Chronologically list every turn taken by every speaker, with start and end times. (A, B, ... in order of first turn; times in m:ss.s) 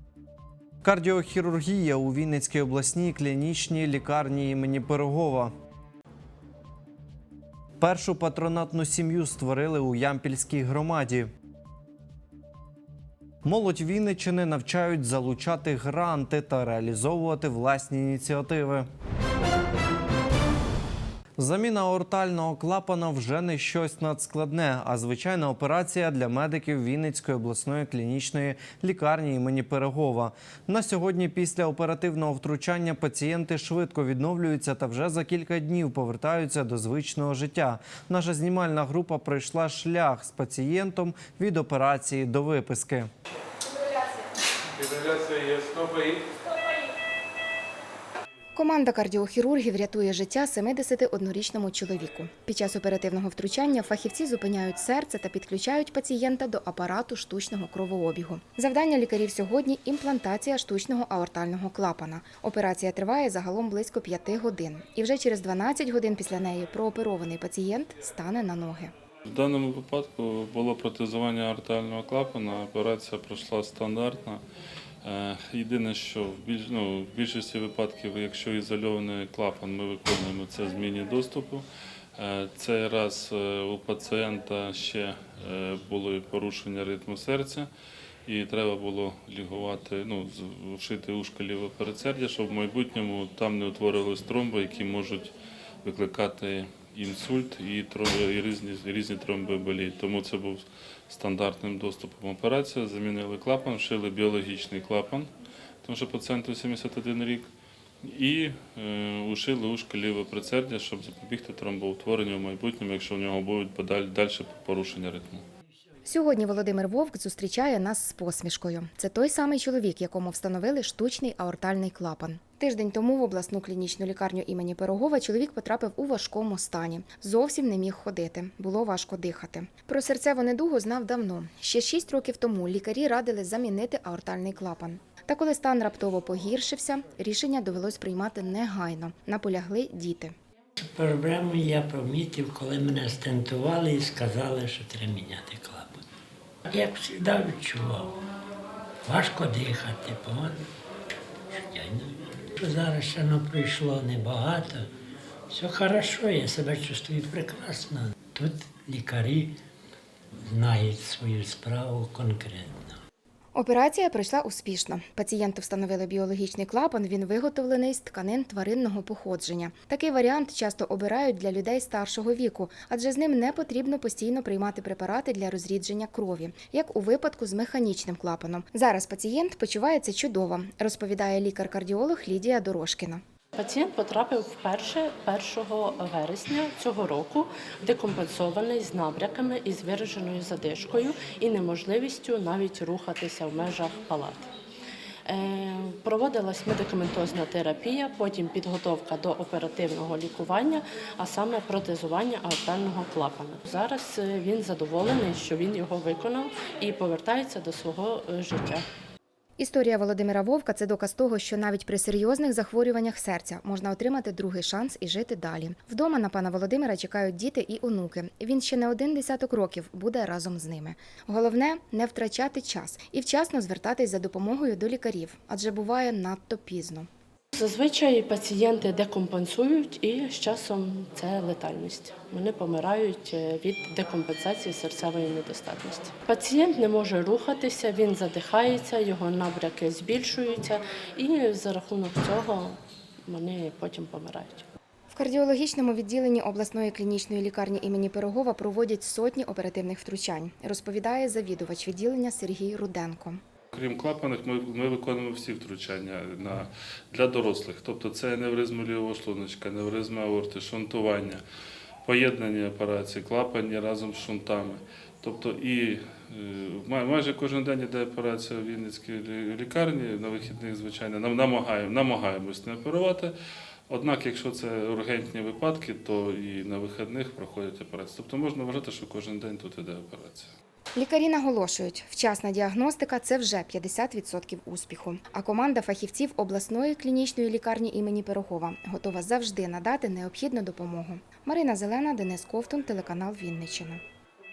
0:00.8-0:05.5 A
0:07.8-0:11.3 A
0:13.4-0:18.9 A
0:21.4-0:43.1 A
0:48.6-1:08.9 B
1:09.3-1:14.4 C
1:15.0-1:21.6 C
1:22.2-1:27.7 C
1:28.3-1:35.3 C
1:35.8-1:45.3 C
1:45.8-1:47.5 C
1:48.0-1:55.4 C
1:56.0-2:20.4 B
2:20.8-2:26.0 D
2:26.6-2:28.2 D
2:29.0-2:30.7 D
2:31.5-2:34.9 D
2:35.5-2:39.6 D
2:40.4-2:43.0 D
2:43.6-3:03.2 B
3:03.6-3:14.5 E
3:15.3-3:28.9 E
3:29.6-3:47.1 B
3:47.6-4:04.6 E
4:05.1-4:13.4 B
4:13.7-4:21.4 C
4:22.0-4:33.3 C
4:33.9-4:40.5 C
4:41.0-4:54.0 B